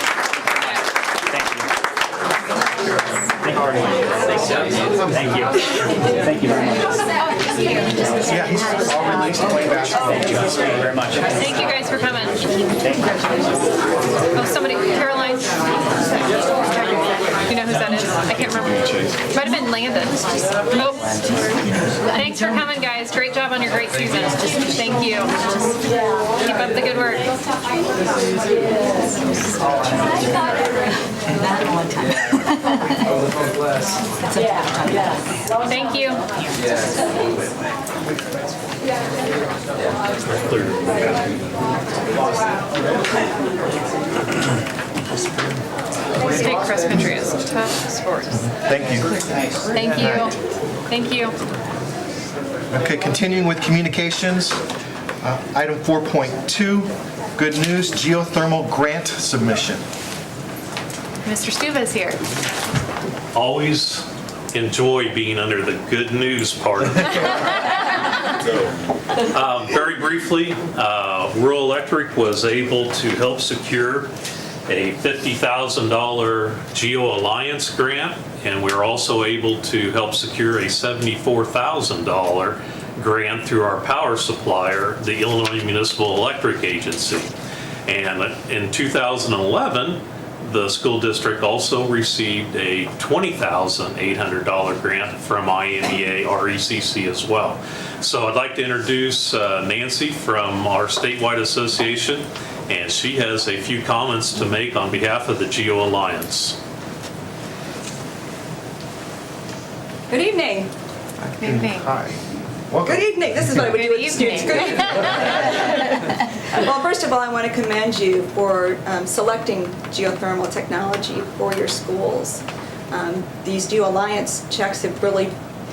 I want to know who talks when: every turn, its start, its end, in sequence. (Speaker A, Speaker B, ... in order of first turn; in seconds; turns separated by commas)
Speaker A: 1.3-1.7, Speaker A: 3.3-7.0, Speaker B: 3.6-3.9, Speaker B: 4.6-5.2, Speaker B: 8.2-10.7, Speaker A: 10.1-11.7, Speaker C: 11.3-12.5, Speaker A: 12.8-13.2, Speaker C: 14.3-16.4, Speaker C: 17.5-25.4, Speaker C: 26.4-27.3, Speaker C: 35.6-36.3, Speaker D: 40.2-41.4, Speaker C: 46.2-48.5, Speaker B: 48.5-49.2, Speaker C: 49.7-50.4, Speaker B: 49.7-50.3, Speaker C: 50.9-51.4, Speaker B: 52.7-54.6, Speaker B: 55.2-59.8, Speaker C: 61.2-62.2, Speaker D: 63.3-67.8, Speaker D: 69.3-74.1, Speaker D: 74.7-87.3, Speaker D: 87.9-106.6, Speaker E: 110.1-110.7, Speaker B: 111.2-113.7, Speaker C: 111.4-111.9, Speaker E: 112.8-125.3, Speaker C: 113.7-115.6